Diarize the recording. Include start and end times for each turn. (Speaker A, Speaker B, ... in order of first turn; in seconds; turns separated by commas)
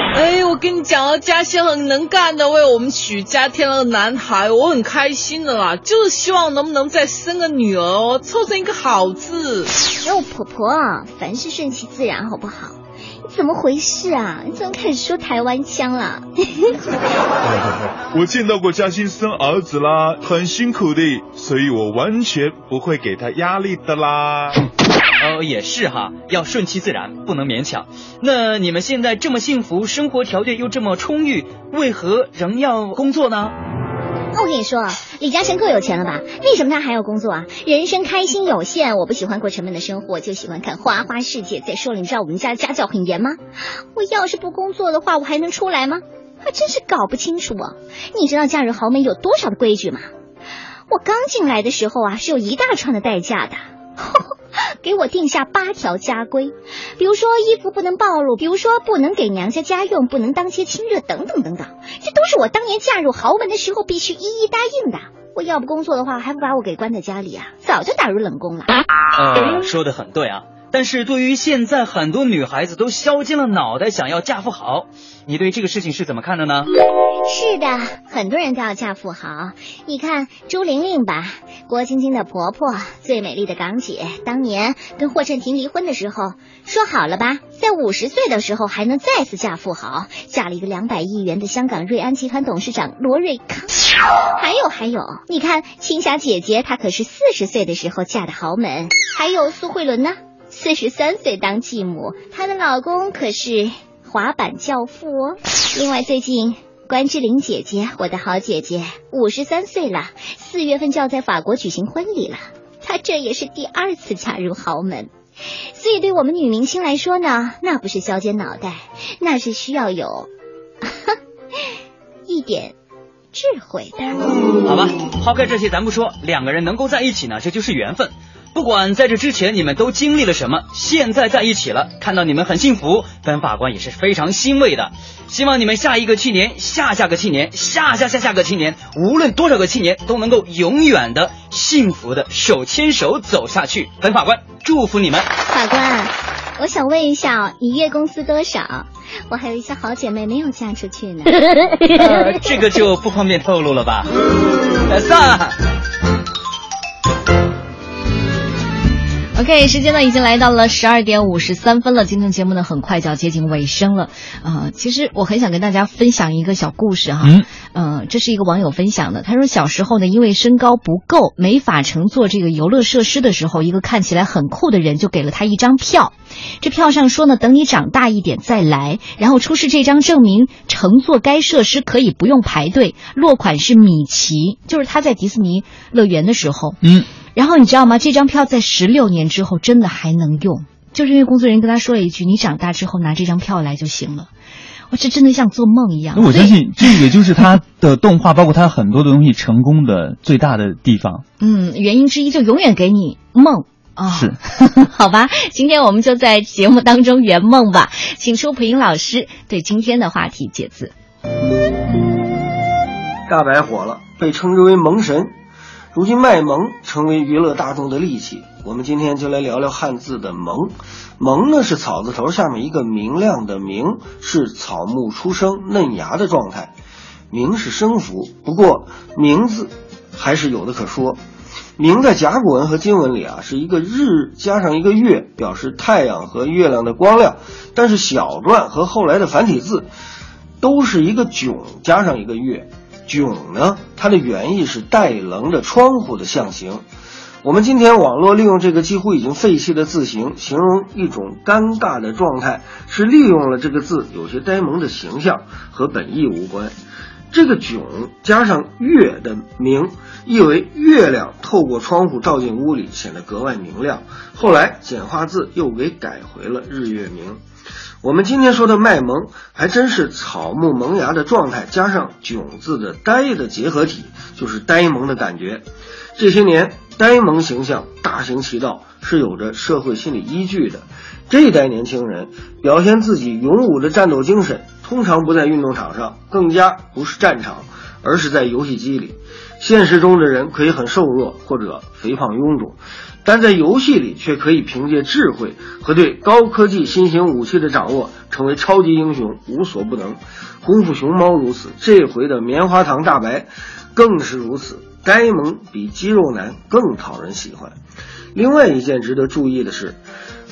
Speaker A: 0.1-9.7, Speaker B: 10.0-16.8, Speaker C: 17.4-24.6, Speaker D: 25.2-33.5, Speaker B: 34.3-43.4, Speaker B: 43.9-50.0, Speaker B: 50.9-54.3, Speaker B: 54.8-68.8, Speaker D: 69.1-76.7, Speaker B: 77.3-93.8, Speaker B: 94.4-115.1, Speaker B: 115.8-120.3, Speaker B: 120.8-121.1, Speaker B: 122.3-122.7, Speaker B: 123.3-124.3, Speaker D: 124.6-145.3, Speaker B: 145.5-151.4, Speaker D: 151.9-154.2, Speaker D: 154.8-155.5, Speaker E: 159.3-186.8, Speaker F: 167.2-167.4, Speaker F: 186.8-187.1, Speaker E: 187.3-194.3, Speaker E: 194.9-196.6, Speaker F: 196.1-201.2, Speaker E: 201.4-210.9, Speaker F: 204.1-204.3, Speaker G: 213.3-215.3, Speaker G: 215.9-226.7, Speaker G: 227.3-231.2, Speaker G: 231.8-239.9, Speaker G: 240.6-246.8, Speaker G: 247.4-256.7, Speaker G: 257.3-267.4, Speaker G: 268.0-275.6, Speaker G: 276.2-307.7, Speaker G: 308.3-310.0